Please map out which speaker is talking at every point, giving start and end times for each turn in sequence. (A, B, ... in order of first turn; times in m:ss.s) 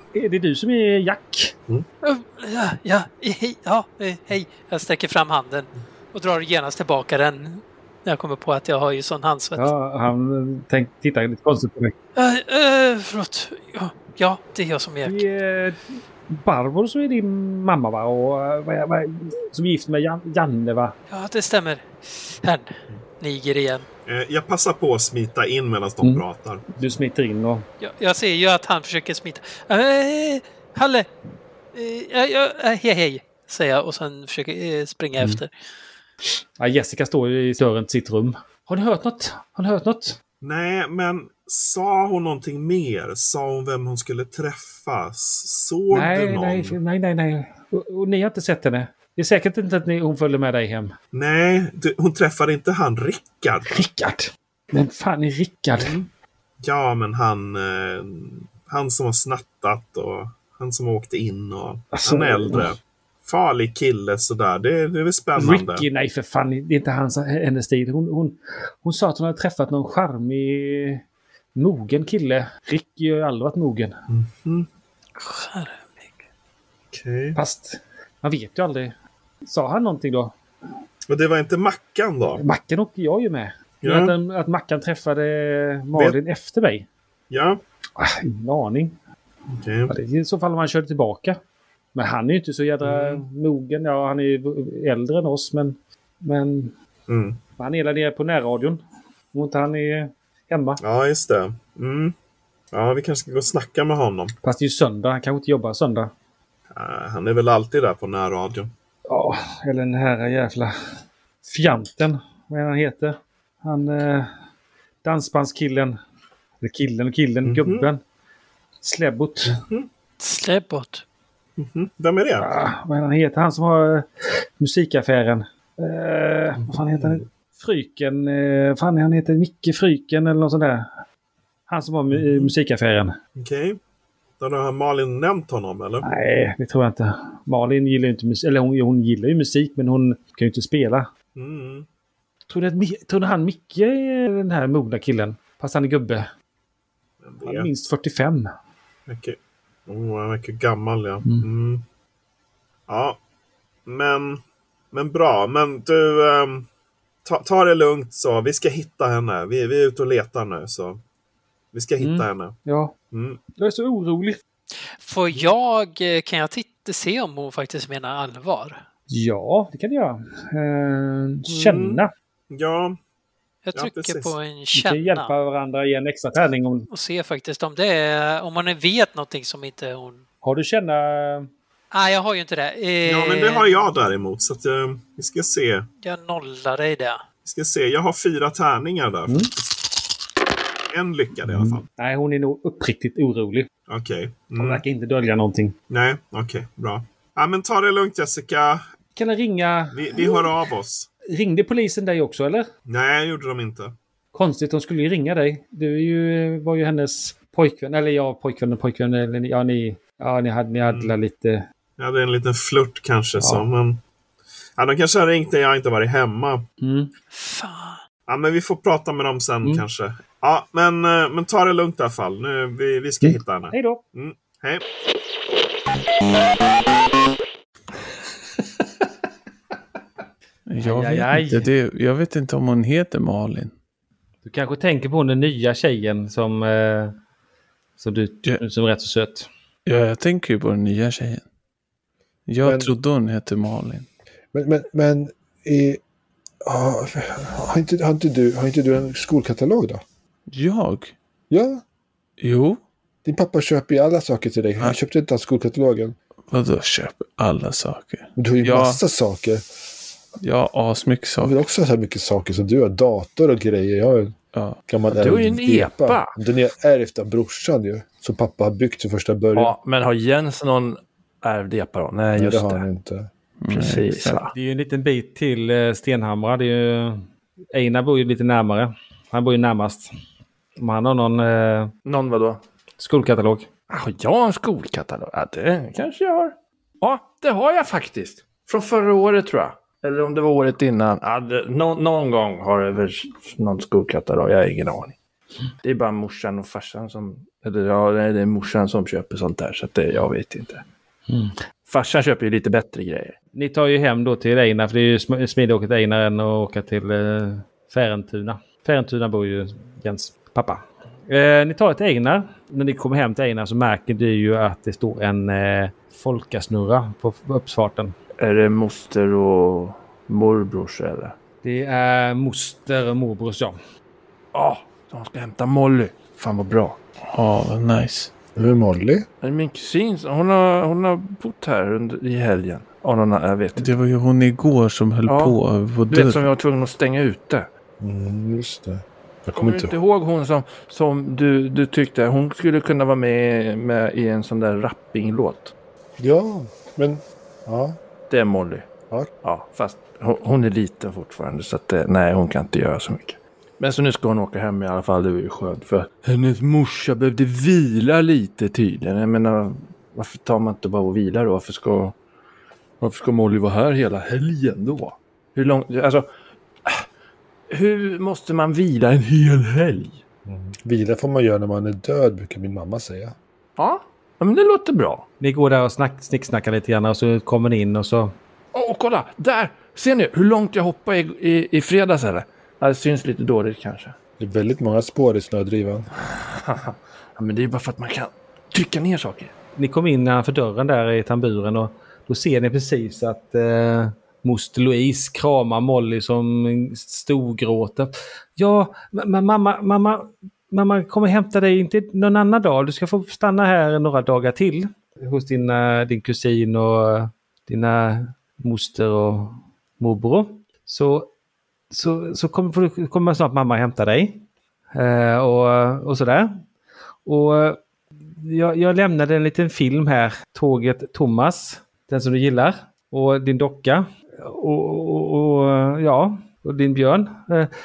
0:00.1-0:01.5 A
0:02.0-0:09.7 B
0:09.6-0:11.9 A
0:12.2-0:15.2 B
0:15.0-0:21.0 A
0:21.1-0:23.8 B
0:24.0-0:26.8 C
0:26.0-0:27.7 A
0:27.8-0:31.1 B
0:31.7-0:35.5 B
0:36.6-0:40.2 A
0:40.4-0:46.8 C
0:45.9-0:50.9 A
0:51.1-0:53.8 C
0:53.7-0:56.0 A
0:55.8-0:56.1 C
0:56.6-1:05.8 C
1:01.9-1:02.7 A
1:05.4-1:11.0 A
1:11.5-1:14.0 A
1:14.1-1:14.7 C
1:15.2-1:16.2 B
1:16.9-1:17.4 C
1:17.4-1:18.9 A
1:19.4-1:20.3 A
1:21.1-1:22.4 C
1:22.4-1:26.9 A
1:23.8-1:24.1 C
1:27.3-1:27.6 C
1:28.0-1:29.0 A
1:29.5-1:29.9 C
1:29.9-1:31.4 A
1:31.9-1:36.7 A
1:32.8-1:33.2 C
1:37.1-1:37.4 C
1:37.6-1:38.8 A
1:39.3-1:40.8 A
1:40.8-1:42.1 C
1:42.7-1:44.3 C
1:44.4-1:46.1 A
1:46.7-1:48.7 C
1:49.1-1:50.7 A
1:51.4-1:54.3 A
1:55.0-1:56.0 A
1:56.6-1:58.0 A
1:57.4-1:57.9 C
1:58.8-1:59.6 A
1:59.5-1:59.9 C
2:00.2-2:01.0 B
2:01.6-2:02.5 C
2:02.4-2:04.1 A
2:04.6-2:10.9 A
2:11.7-2:13.2 A
2:12.1-2:12.5 C
2:13.4-2:13.8 C
2:14.4-2:16.1 C
2:16.0-2:21.1 A
2:21.3-2:21.8 C
2:22.5-2:26.3 A
2:27.2-2:27.8 C
2:27.4-2:28.5 A
2:29.1-2:29.4 C
2:29.9-2:31.8 C
2:32.9-2:33.2 C
2:33.8-2:34.4 C
2:34.9-2:36.7 C
2:37.2-2:41.0 C
2:41.7-2:42.6 C
2:42.0-2:42.9 A
2:43.1-2:43.4 C
2:43.6-2:44.4 A
2:45.0-2:48.8 B
2:49.1-2:52.1 A
2:51.5-2:53.0 C
2:53.6-2:55.3 B
2:53.7-2:54.3 C
2:54.7-2:56.8 A
2:56.9-3:00.2 B
3:00.4-3:01.5 A
3:01.9-3:03.7 B
3:03.0-3:05.8 C
3:06.0-3:07.2 B
3:07.4-3:09.8 C
3:10.9-3:11.8 C
3:11.5-3:13.7 A
3:13.9-3:14.8 C
3:14.6-3:15.7 A
3:15.9-3:18.8 C
3:19.2-3:20.5 A
3:19.9-3:21.1 C
3:21.2-3:22.7 A
3:22.9-3:23.9 C
3:24.3-3:31.6 A
3:30.8-3:31.2 C
3:32.0-3:34.0 C
3:33.4-3:33.7 A
3:34.8-3:36.6 C
3:36.8-3:37.1 A
3:37.3-3:38.0 B
3:38.3-3:44.8 C
3:43.2-3:44.0 A
3:50.7-3:53.7 D
3:50.8-3:51.7 A
3:54.4-3:57.1 A
3:58.0-3:59.5 A
3:59.8-4:01.4 D
4:02.5-4:04.0 D
4:02.6-4:02.9 E
4:04.5-4:06.0 E
4:06.6-4:10.0 E
4:10.5-4:11.1 D
4:11.5-4:11.8 E
4:12.4-4:12.8 D
4:13.2-4:16.2 E
4:16.5-4:19.0 D
4:18.4-4:19.6 E
4:20.4-4:21.6 D
4:21.4-4:29.7 E
4:24.5-4:24.8 D
4:25.1-4:26.4 F
4:29.5-4:32.8 F
4:32.4-4:33.3 E
4:33.6-4:34.4 D
4:33.7-4:34.5 F
4:34.5-4:40.1 A
4:40.8-4:41.9 A
4:42.0-4:42.6 F
4:43.0-4:43.7 A
4:43.9-4:55.2 F
4:55.8-5:00.8 F
5:01.3-5:01.6 A
5:01.8-5:03.4 F
5:03.5-5:18.2 A
5:18.4-5:21.4 F
5:21.6-5:23.8 A
5:24.5-5:27.0 F
5:27.3-5:28.3 D
5:28.6-5:29.2 E
5:29.4-5:33.9 F
5:33.8-5:36.5 D
5:35.2-5:35.6 F
5:36.1-5:37.7 F
5:38.0-5:39.9 E
5:39.5-5:45.7 F
5:46.2-5:48.0 E
5:48.3-5:48.9 F
5:49.4-6:02.2 F
6:03.0-6:06.3 F
6:07.7-6:10.2 F
6:10.4-6:13.4 E
6:13.8-6:15.2 F
6:15.4-6:18.4 A
6:18.7-6:24.1 F
6:24.4-6:26.1 E
6:26.2-6:29.5 F
6:29.8-6:51.3 A
6:51.9-6:56.6 A
6:57.2-7:07.7 A